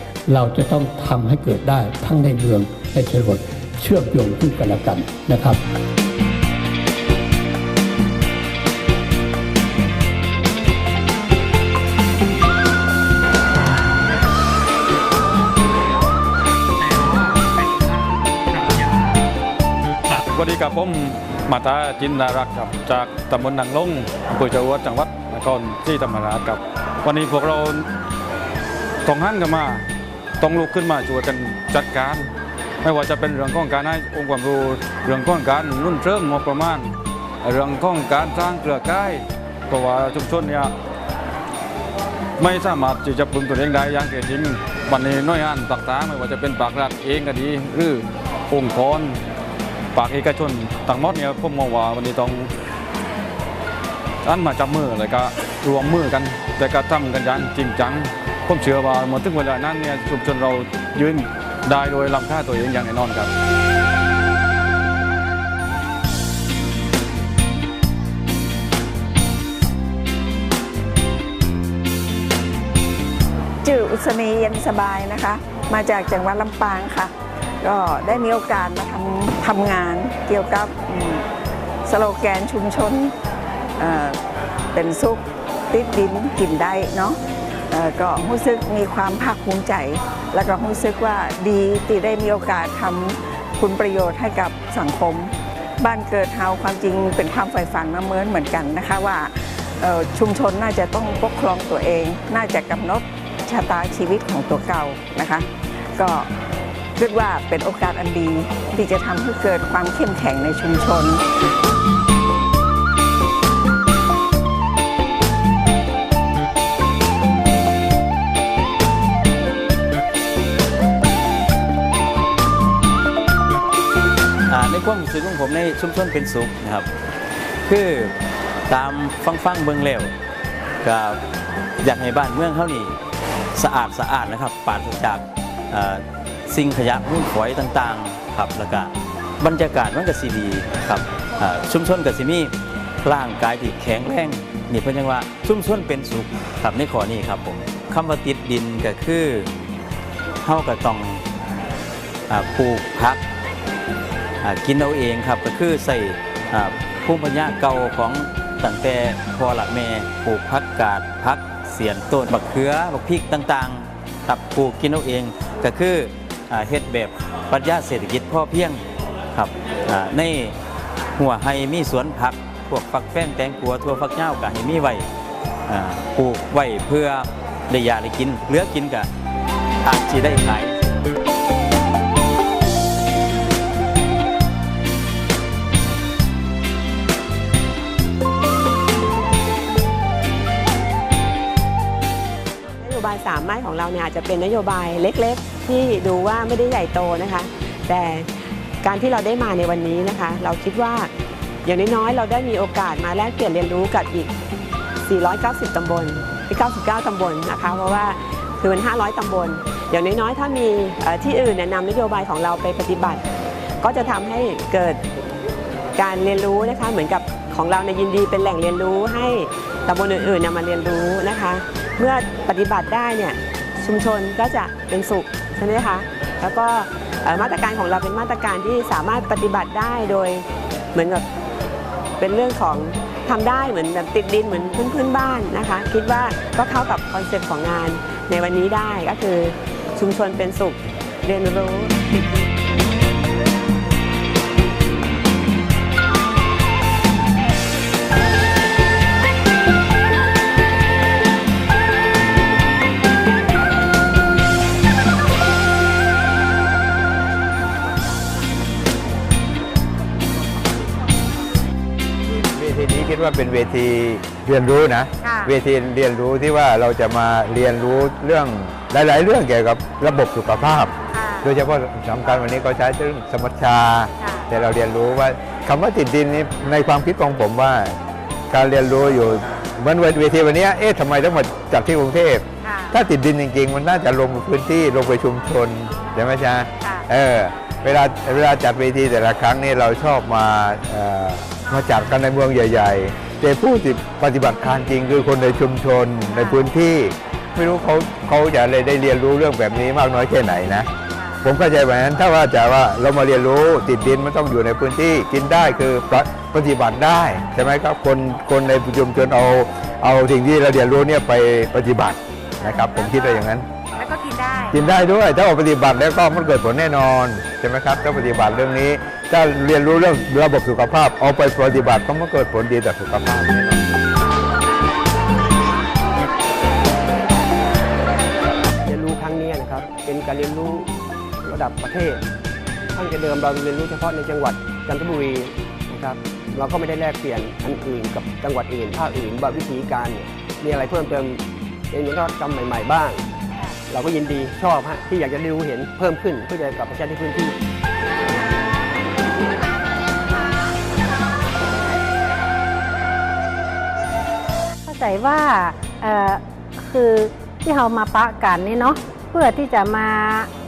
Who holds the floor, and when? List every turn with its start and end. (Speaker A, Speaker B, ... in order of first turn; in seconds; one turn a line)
Speaker A: 0.3-5.6
Speaker B: 20.3-27.8
Speaker B: 29.1-29.8
Speaker B: 30.4-32.3
Speaker B: 32.8-36.9
Speaker B: 37.4-40.7
Speaker B: 42.4-49.2
Speaker B: 49.9-52.5
Speaker B: 54.2-63.3
Speaker C: 73.6-81.2
Speaker C: 81.9-83.1
Speaker C: 83.8-84.2
Speaker C: 84.7-87.2
Speaker C: 87.7-105.5
Speaker C: 106.0-106.3
Speaker C: 107.0-111.2
Speaker D: 124.5-126.9
Speaker D: 127.7-128.1
Speaker D: 128.7-130.1
Speaker D: 130.8-131.2
Speaker D: 131.8-132.9
Speaker D: 133.5-142.5
Speaker D: 143.0-149.5
Speaker D: 150.4-151.2
Speaker D: 152.3-153.2
Speaker D: 154.4-168.8
Speaker D: 169.3-170.5
Speaker D: 171.2-175.0
Speaker D: 175.7-179.1
Speaker D: 179.8-180.9
Speaker E: 192.8-198.3
Speaker E: 198.8-201.1
Speaker E: 201.6-204.3
Speaker E: 205.0-213.2
Speaker E: 213.8-215.0
Speaker E: 215.9-231.2
Speaker E: 232.2-242.4
Speaker F: 262.2-278.0
Speaker E: 265.2-265.5
Speaker E: 271.1-271.5
Speaker E: 274.2-274.4
Speaker F: 278.5-300.9
Speaker E: 282.6-283.0
Speaker E: 286.8-287.1
Speaker E: 296.3-296.6
Speaker F: 301.4-313.6
Speaker E: 312.6-314.8
Speaker F: 314.7-323.8
Speaker G: 328.9-330.9
Speaker G: 331.4-332.2
Speaker G: 332.9-343.2
Speaker G: 343.9-347.5
Speaker H: 354.9-360.5